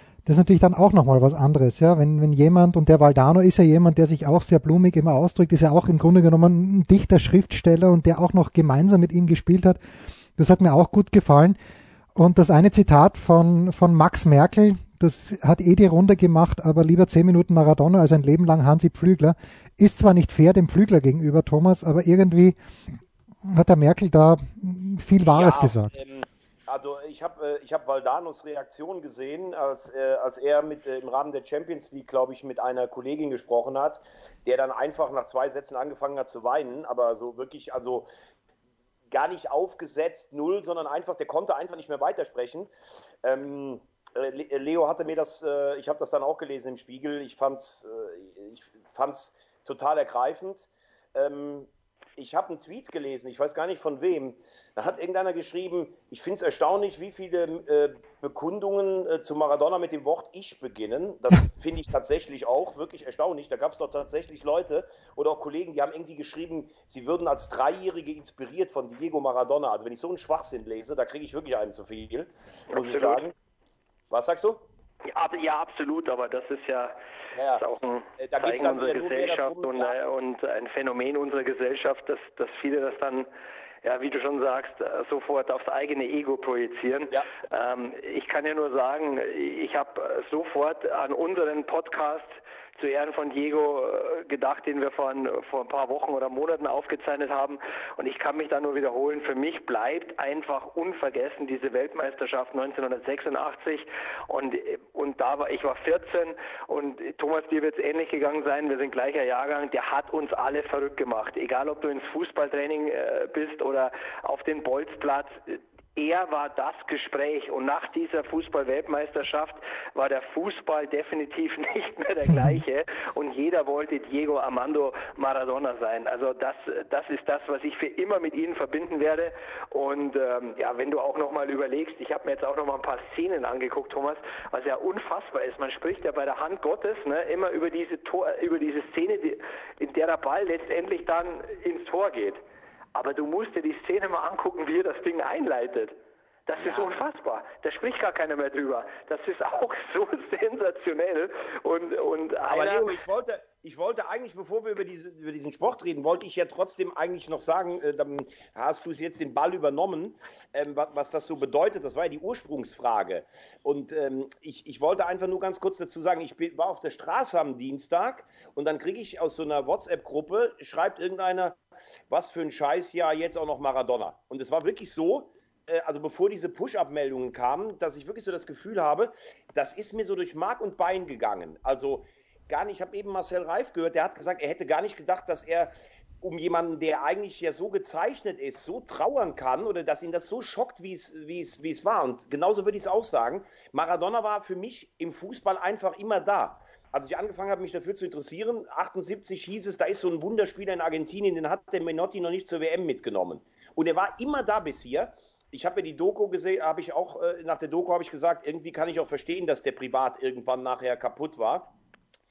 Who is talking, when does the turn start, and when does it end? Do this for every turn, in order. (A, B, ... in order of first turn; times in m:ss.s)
0:00.2-0:09.8 A
0:10.4-0:11.6 A
0:12.1-0:22.6 A
0:23.4-0:25.9 A
0:25.2-0:38.1 B
0:39.1-0:42.7 B
0:43.2-1:13.3 B
1:12.7-1:13.2 C
1:14.1-1:14.6 B
1:15.1-1:16.9 C
1:17.4-1:17.6 B
1:17.6-1:23.3 C
1:18.2-1:20.0 B
1:23.8-2:22.4 C
2:22.9-2:25.9 C
2:26.5-2:32.9 C
2:26.6-2:26.9 B
2:32.5-2:51.6 B
2:52.1-3:31.7 B